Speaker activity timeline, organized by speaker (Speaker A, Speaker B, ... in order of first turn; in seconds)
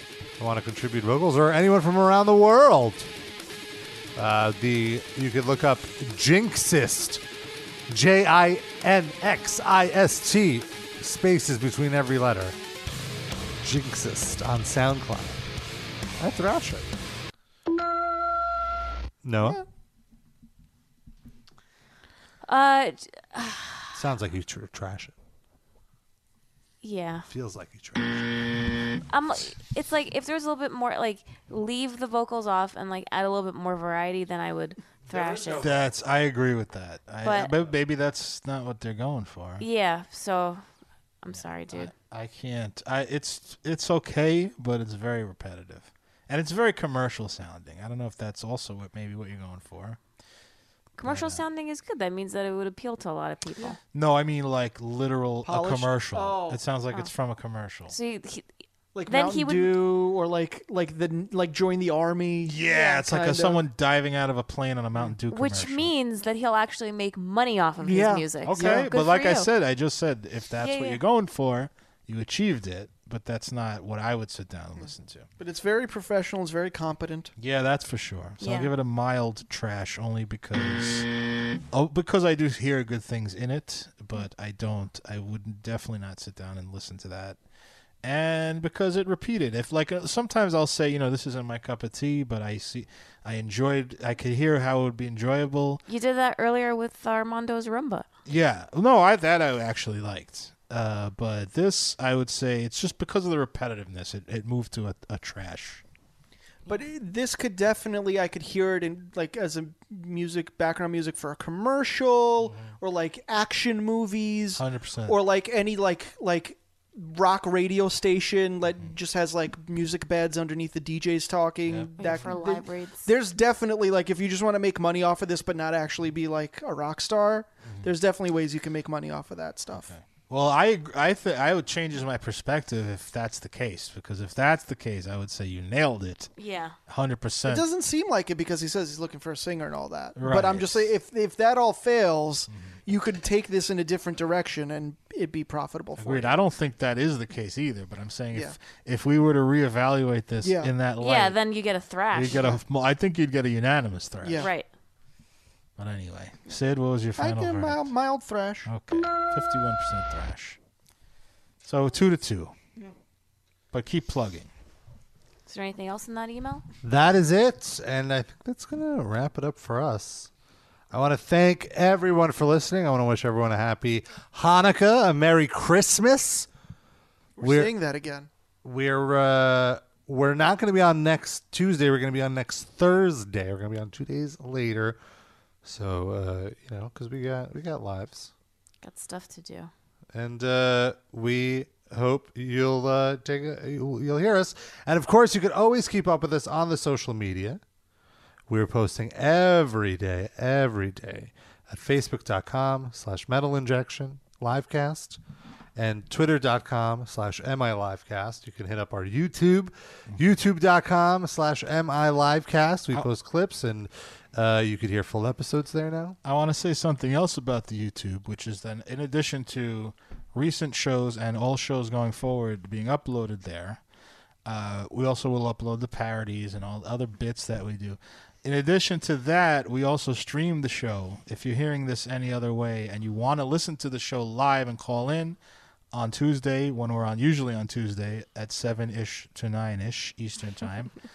Speaker A: 0.4-3.1, 4.2-7.2, 7.9-12.6, 13.6-15.4, 16.2-16.9, 19.2-19.6, 23.9-25.1, 27.3-28.5, 166.8-170.3, 170.9-176.5, 177.4-177.7, 178.6-185.0, 185.6-188.3, 190.1-197.6, 198.5-205.2, 205.8-216.2
Speaker B: 22.4-23.9, 26.8-27.3, 29.1-35.7, 37.2-37.5, 39.6-40.7, 41.2-41.9, 51.0-53.8, 57.9-58.5, 59.1-59.8, 62.7-63.0, 65.3-69.5, 70.6-71.0, 78.4-78.7, 95.9-98.1, 122.0-123.1, 136.4-136.8, 151.0-152.5, 154.4-154.7, 165.5-166.6, 188.8-189.7
Speaker C: 35.6-39.6, 41.3-50.0, 51.0-51.4, 53.9-58.0, 62.5-65.9, 68.5-75.3, 77.4-81.1, 81.7-87.4, 88.0-95.8, 98.3-105.8, 112.5-112.8, 114.6-115.2, 121.7-122.3, 129.9-136.3, 136.9-137.7, 140.2-140.9, 142.5-142.8, 146.0-151.4, 152.1-154.5, 155.8-157.9, 158.7-160.6, 161.7-162.5, 163.7-164.5, 216.2-223.8, 224.4-235.4, 235.9-240.9
Speaker D: 55.5-56.6, 58.9-63.6, 67.8-68.9, 74.8-77.3, 106.7-129.9, 137.5-146.3, 150.4-150.7, 154.2-154.5, 157.2-158.7, 177.4-178.3